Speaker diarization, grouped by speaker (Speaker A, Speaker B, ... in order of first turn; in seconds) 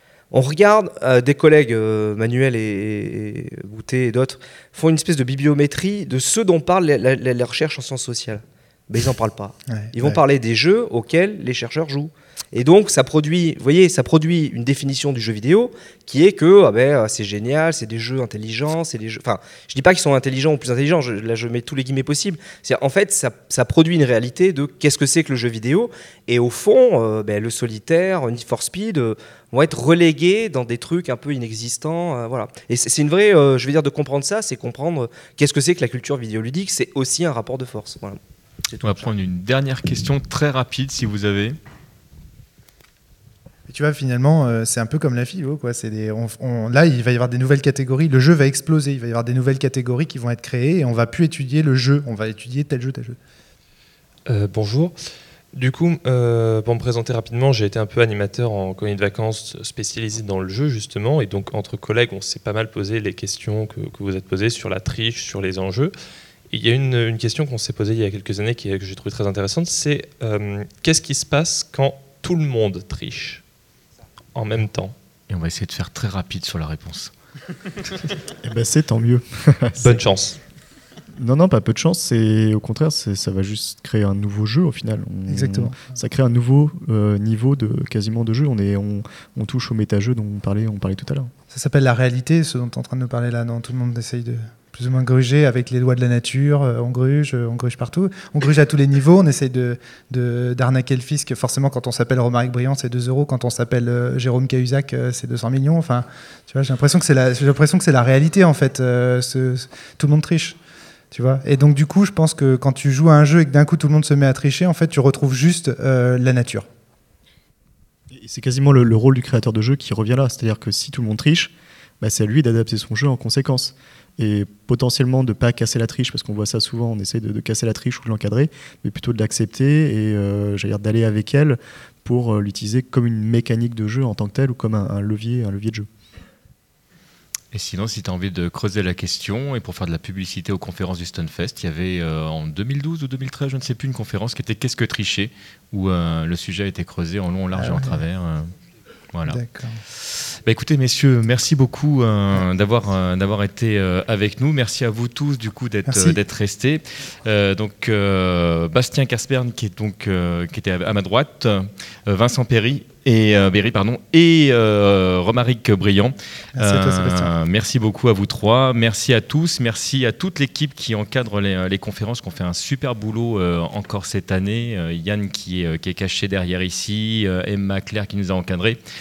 Speaker A: 0.3-39.1
Speaker B: 9.7-10.2, 43.7-53.2, 85.3-85.8, 91.5-110.6, 111.1-116.7, 147.6-148.0, 149.3-149.8, 155.9-156.2, 166.6-167.3
Speaker C: 38.8-41.6, 75.3-77.1, 137.5-148.5, 149.1-149.4, 150.4-178.8
Speaker D: 54.3-55.0, 55.5-65.9, 66.5-73.4, 74.3-75.0, 79.8-80.4
Speaker E: 78.4-80.0, 81.2-91.3, 118.1-135.9